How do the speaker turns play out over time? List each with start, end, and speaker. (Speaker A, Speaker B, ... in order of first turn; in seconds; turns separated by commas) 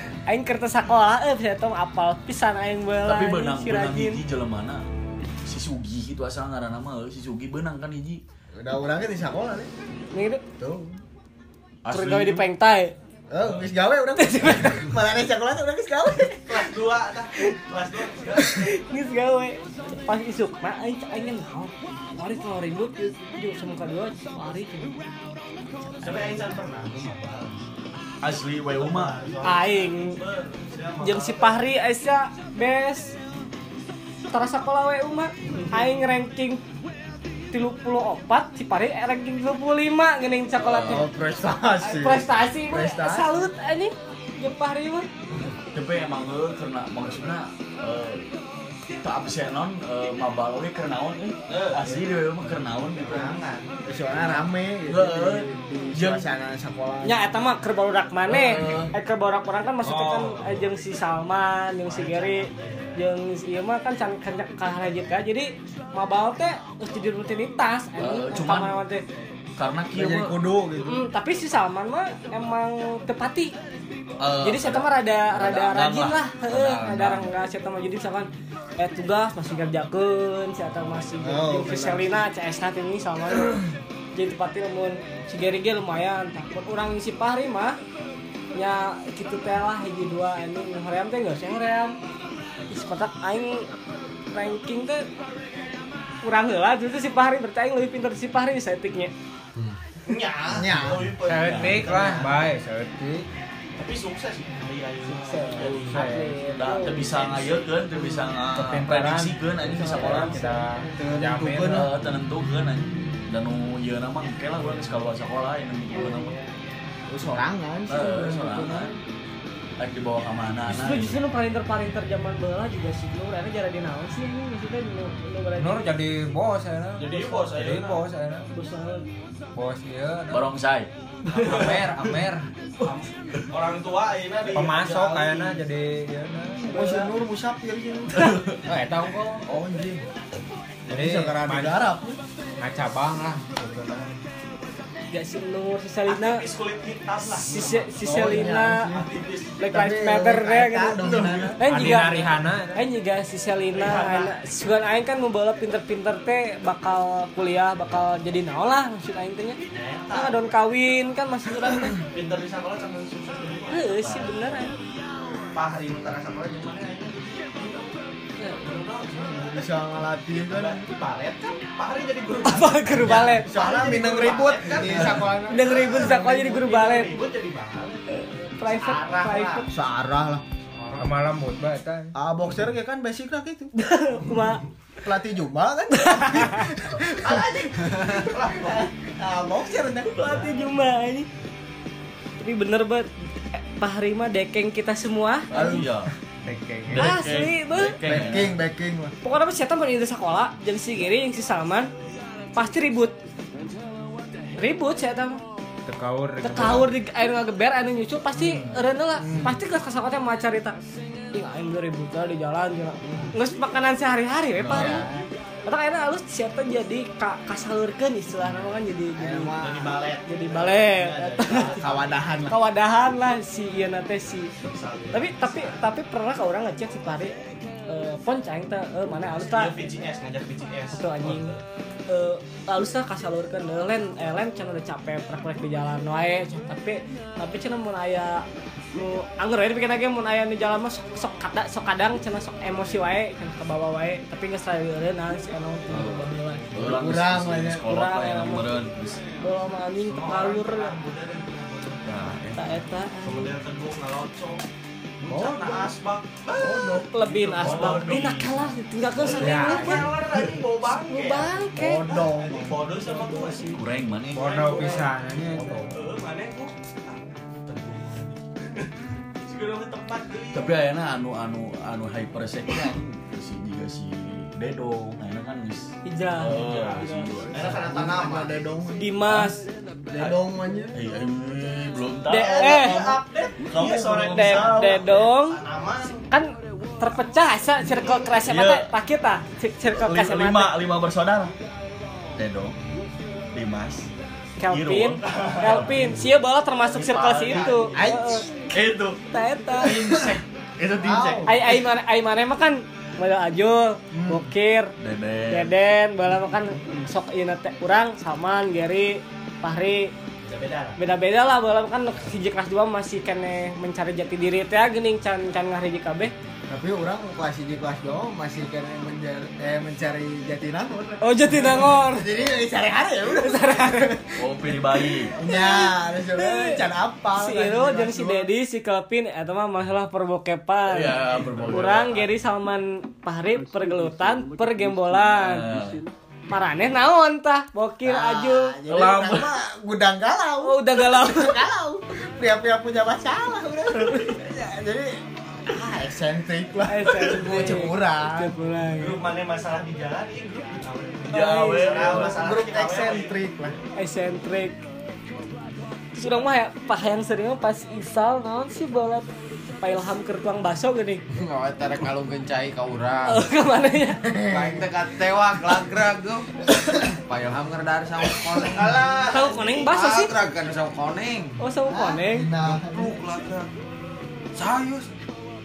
Speaker A: 0.2-4.2, Speaker B: 3.0-4.8, Speaker B: 5.4-8.2, Speaker C: 8.5-9.7, Speaker A: 10.1-10.4, Speaker C: 10.6-11.0, Speaker B: 11.8-12.4, Speaker A: 11.9-12.9, Speaker C: 13.3-16.7, Speaker A: 14.2-14.9, Speaker D: 16.5-18.7, Speaker A: 18.4-25.0, Speaker A: 25.9-26.4, Speaker D: 26.0-27.6, Speaker B: 28.2-29.2, Speaker D: 28.7-31.6, Speaker A: 29.4-30.2, Speaker A: 31.0-33.1, Speaker A: 34.3-36.6, Speaker A: 37.5-41.1, Speaker B: 40.6-41.1, Speaker C: 40.8-43.3, Speaker A: 41.7-45.1, Speaker B: 45.7-48.3, Speaker B: 49.0-53.3, Speaker D: 51.5-52.0, Speaker D: 53.0-53.8, Speaker C: 53.1-57.2, Speaker B: 54.9-56.2, Speaker A: 57.0-69.0, Speaker B: 58.3-58.9, Speaker E: 59.8-60.6, Speaker D: 61.9-63.0, Speaker B: 68.0-68.8, Speaker B: 69.6-70.3, Speaker C: 69.9-71.1, Speaker A: 70.8-73.5, Speaker B: 74.2-77.3, Speaker A: 74.4-83.6, Speaker C: 81.2-82.2, Speaker C: 83.4-83.6, Speaker A: 84.1-87.8, Speaker A: 88.5-92.0, Speaker A: 92.7-93.7, Speaker A: 94.3-95.1, Speaker A: 96.2-99.1, Speaker D: 100.0-102.5, Speaker C: 100.5-101.1, Speaker E: 101.2-103.3, Speaker D: 103.8-106.1, Speaker A: 105.0-107.3, Speaker E: 105.6-106.4, Speaker B: 106.5-110.4, Speaker D: 107.1-107.6, Speaker E: 108.5-111.9, Speaker A: 109.7-110.9, Speaker C: 111.0-111.9, Speaker B: 111.6-116.4, Speaker A: 115.9-116.4, Speaker C: 117.1-119.0, Speaker B: 117.9-118.9, Speaker B: 119.8-121.2, Speaker A: 120.7-125.9, Speaker E: 125.6-128.5, Speaker D: 127.0-128.1, Speaker A: 128.5-129.1, Speaker E: 129.5-130.4, Speaker B: 130.3-130.9, Speaker E: 131.3-132.4, Speaker D: 131.3-132.0, Speaker B: 132.8-133.4, Speaker D: 133.5-135.6, Speaker E: 134.5-137.0, Speaker C: 136.6-138.4, Speaker B: 138.1-138.6, Speaker E: 138.7-139.4, Speaker C: 139.4-140.0, Speaker E: 140.9-141.9, Speaker C: 140.9-142.2, Speaker E: 142.6-144.2, Speaker A: 145.1-146.4, Speaker D: 146.1-149.6, Speaker A: 147.4-148.9, Speaker C: 148.0-149.1, Speaker A: 149.6-162.0, Speaker C: 149.7-151.6, Speaker B: 151.0-151.5, Speaker E: 151.6-152.8, Speaker D: 153.7-154.3, Speaker D: 159.6-160.5, Speaker D: 162.0-164.7, Speaker A: 163.7-164.8, Speaker D: 165.5-167.9, Speaker A: 168.4-168.6, Speaker D: 168.6-169.8, Speaker C: 169.1-170.8, Speaker D: 170.3-179.7, Speaker A: 172.4-173.5, Speaker C: 173.0-176.6, Speaker A: 175.5-177.2, Speaker A: 178.1-179.7, Speaker C: 179.7-180.4, Speaker D: 180.7-181.2, Speaker E: 181.0-182.1, Speaker C: 182.1-183.7, Speaker A: 183.7-184.6, Speaker C: 185.0-190.4, Speaker A: 185.9-186.6, Speaker D: 187.1-188.9, Speaker A: 190.1-191.3, Speaker A: 192.4-195.5, Speaker C: 195.5-195.9, Speaker B: 195.5-196.1, Speaker E: 196.4-197.2, Speaker B: 196.9-198.6, Speaker A: 196.9-198.0, Speaker C: 198.0-199.1, Speaker A: 199.2-201.9, Speaker A: 202.5-203.1, Speaker A: 204.6-205.4, Speaker E: 205.9-206.9, Speaker A: 206.4-210.8, Speaker C: 209.2-209.6, Speaker A: 211.3-215.1, Speaker C: 213.0-213.3, Speaker B: 214.6-215.0, Speaker C: 214.7-215.3, Speaker A: 215.7-219.5, Speaker C: 219.2-220.0, Speaker D: 219.6-222.2, Speaker A: 220.2-221.8, Speaker C: 221.5-222.6, Speaker A: 222.5-224.5, Speaker D: 224.6-225.8, Speaker A: 225.1-229.8, Speaker D: 229.3-231.6, Speaker A: 230.9-231.5, Speaker A: 232.1-246.7, Speaker B: 245.9-249.2, Speaker C: 246.7-247.9, Speaker A: 247.8-248.8, Speaker A: 249.4-250.9, Speaker D: 250.0-252.3, Speaker B: 252.0-252.8, Speaker A: 252.5-253.5, Speaker D: 253.2-254.6, Speaker D: 255.2-258.7, Speaker C: 255.2-255.9, Speaker C: 256.5-257.1, Speaker A: 257.0-260.1, Speaker B: 257.6-258.5, Speaker D: 259.2-263.8, Speaker E: 259.4-260.1, Speaker A: 261.0-262.1, Speaker C: 261.8-262.8, Speaker A: 263.0-263.8, Speaker B: 263.7-264.6, Speaker E: 264.3-265.9, Speaker D: 264.4-265.2, Speaker C: 265.4-265.9, Speaker D: 265.9-268.9, Speaker D: 269.4-270.8, Speaker B: 270.5-277.9, Speaker A: 276.0-277.3, Speaker D: 276.5-278.6, Speaker C: 277.5-279.5, Speaker A: 279.0-279.7, Speaker C: 280.1-280.9, Speaker B: 280.9-283.1, Speaker A: 282.3-283.2, Speaker D: 282.3-286.2, Speaker B: 283.6-285.0, Speaker A: 284.3-285.6, Speaker A: 286.3-290.8, Speaker B: 288.4-288.9, Speaker B: 289.9-291.5, Speaker B: 292.4-292.7, Speaker B: 293.5-294.1, Speaker A: 294.6-298.5, Speaker B: 294.7-296.2, Speaker D: 295.2-295.8, Speaker B: 296.9-297.9, Speaker D: 297.5-298.0, Speaker C: 297.9-298.5, Speaker B: 298.7-299.2, Speaker A: 299.3-300.1, Speaker B: 299.8-301.7, Speaker C: 300.0-300.4, Speaker C: 301.0-301.5, Speaker A: 301.4-304.9, Speaker C: 304.1-304.5, Speaker B: 305.0-305.7, Speaker A: 305.5-310.1, Speaker D: 310.4-311.0, Speaker A: 311.0-316.3, Speaker C: 316.7-324.2, Speaker A: 321.2-322.3, Speaker A: 323.2-324.2, Speaker B: 324.4-325.4, Speaker A: 325.3-326.8, Speaker C: 325.4-328.5, Speaker A: 327.4-335.7, Speaker B: 330.9-332.3, Speaker B: 335.4-336.0, Speaker A: 336.5-338.8, Speaker C: 338.0-345.1, Speaker B: 338.9-339.5, Speaker A: 340.6-341.6, Speaker A: 343.9-344.3, Speaker C: 345.6-348.5, Speaker A: 346.9-349.2, Speaker D: 349.0-353.3, Speaker B: 351.3-352.5, Speaker A: 351.3-352.3, Speaker C: 352.3-353.8, Speaker A: 353.9-354.8, Speaker A: 356.1-359.3, Speaker A: 359.8-361.2, Speaker F: 361.3-363.5, Speaker A: 363.3-364.2, Speaker C: 364.2-364.9, Speaker F: 364.5-369.0, Speaker D: 368.6-370.0, Speaker A: 369.3-370.3, Speaker F: 369.9-371.6, Speaker A: 371.6-372.5, Speaker C: 371.9-373.2, Speaker F: 372.6-373.7, Speaker F: 374.5-375.1